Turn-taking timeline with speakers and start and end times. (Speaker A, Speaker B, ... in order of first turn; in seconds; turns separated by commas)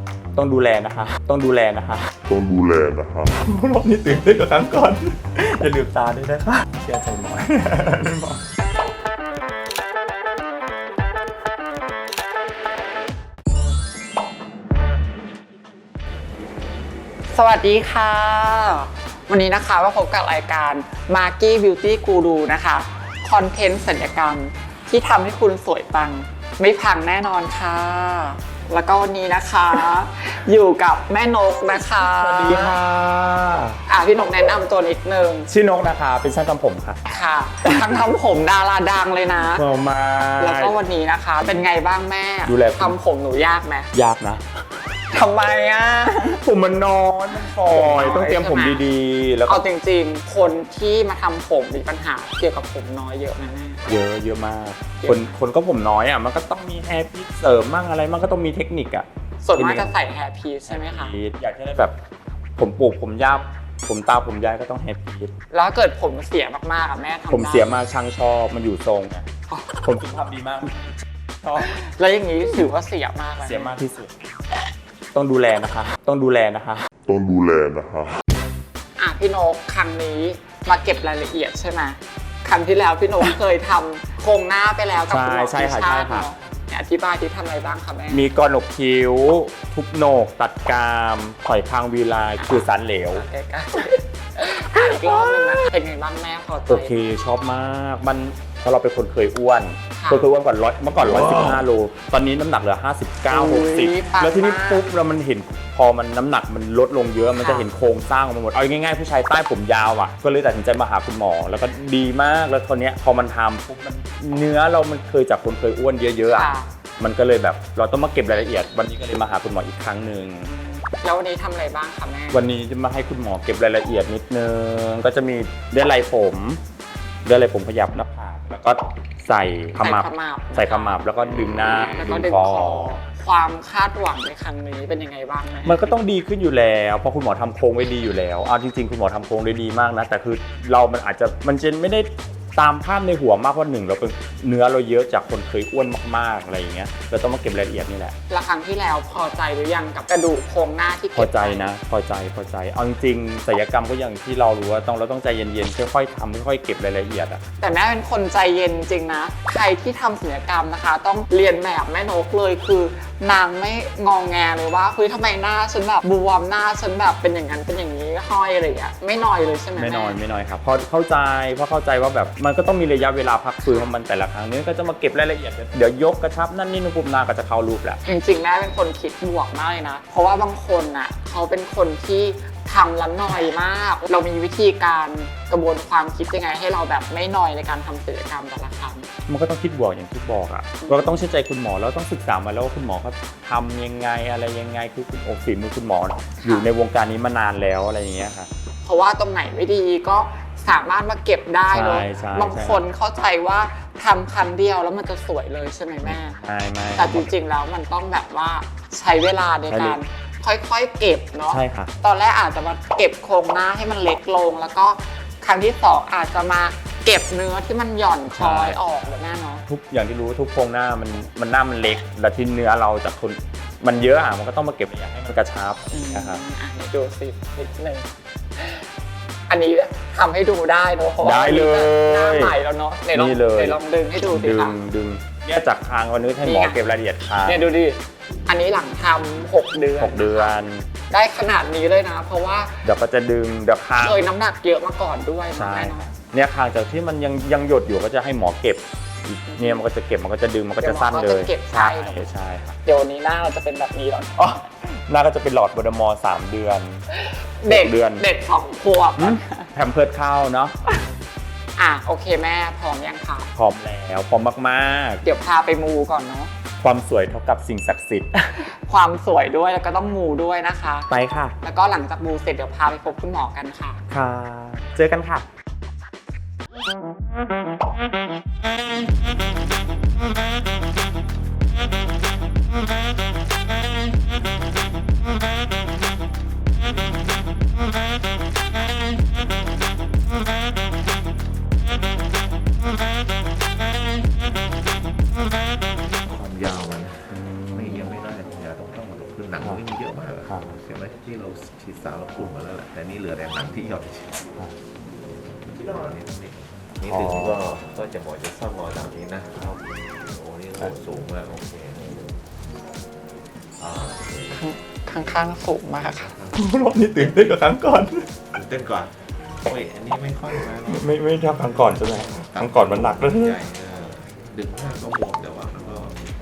Speaker A: 0.3-2.1, Speaker B: 2.3-3.3, Speaker A: 3.3-8.4, Speaker C: 17.3-32.8, Speaker A: 32.0-33.8, Speaker C: 33.9-35.5, Speaker A: 35.5-37.0, Speaker C: 37.1-39.7, Speaker A: 39.5-40.8, Speaker C: 40.4-43.9, Speaker A: 42.5-42.9, Speaker A: 43.9-44.4, Speaker C: 45.1-46.4, Speaker A: 46.4-49.6, Speaker C: 47.4-48.8, Speaker C: 49.5-53.9, Speaker A: 53.9-59.9, Speaker C: 55.0-55.3, Speaker C: 59.4-61.1, Speaker A: 60.7-61.9, Speaker A: 62.6-65.3, Speaker C: 65.5-67.8, Speaker A: 67.3-69.3, Speaker A: 69.8-70.8, Speaker A: 71.4-71.7, Speaker C: 71.6-73.7, Speaker A: 73.4-74.1, Speaker A: 75.1-76.8, Speaker B: 77.1-78.1, Speaker C: 79.0-88.2, Speaker A: 85.1-86.3, Speaker A: 88.1-93.2, Speaker C: 93.1-96.9, Speaker A: 94.8-95.4, Speaker A: 96.7-120.5, Speaker C: 99.9-100.2, Speaker C: 103.3-104.9, Speaker C: 107.3-107.7, Speaker C: 116.3-116.7, Speaker C: 120.5-122.4, Speaker A: 122.3-126.6, Speaker A: 127.2-132.9, Speaker C: 129.8-131.0, Speaker C: 131.6-135.9, Speaker A: 135.6-148.2, Speaker C: 148.3-151.7, Speaker A: 151.1-157.4, Speaker C: 157.6-170.2, Speaker A: 169.8-178.0, Speaker C: 173.6-173.9, Speaker C: 178.1-189.1, Speaker A: 189.3-198.5, Speaker C: 190.8-191.2, Speaker C: 196.4-196.7, Speaker C: 198.8-206.4, Speaker A: 201.7-202.8, Speaker A: 206.0-207.3, Speaker C: 206.9-219.6, Speaker A: 209.7-210.0, Speaker A: 211.5-211.9, Speaker A: 218.2-218.9, Speaker A: 219.7-226.4, Speaker C: 225.9-228.8, Speaker C: 229.5-234.8, Speaker A: 231.2-232.6, Speaker A: 233.1-237.7, Speaker C: 236.4-236.8, Speaker C: 237.4-240.5, Speaker A: 240.0-240.9, Speaker C: 241.1-242.8, Speaker A: 242.8-244.2, Speaker C: 244.0-246.1, Speaker A: 245.5-252.8, Speaker C: 249.5-249.8, Speaker C: 250.8-252.3, Speaker C: 252.8-254.3, Speaker A: 254.3-257.0, Speaker C: 257.1-259.7, Speaker A: 257.7-258.2, Speaker A: 259.2-260.7, Speaker C: 261.8-263.5, Speaker A: 263.6-265.2, Speaker C: 265.2-266.5, Speaker A: 266.8-268.6, Speaker C: 268.6-271.1, Speaker A: 271.1-271.5, Speaker C: 271.6-274.0, Speaker A: 274.1-275.4, Speaker D: 296.2-304.4, Speaker A: 297.3-298.1, Speaker A: 300.4-300.8, Speaker D: 305.6-312.4, Speaker A: 307.0-307.6, Speaker D: 313.8-315.4, Speaker C: 314.6-316.3, Speaker D: 315.9-317.7, Speaker A: 316.6-318.3, Speaker D: 318.5-326.2, Speaker A: 320.9-323.6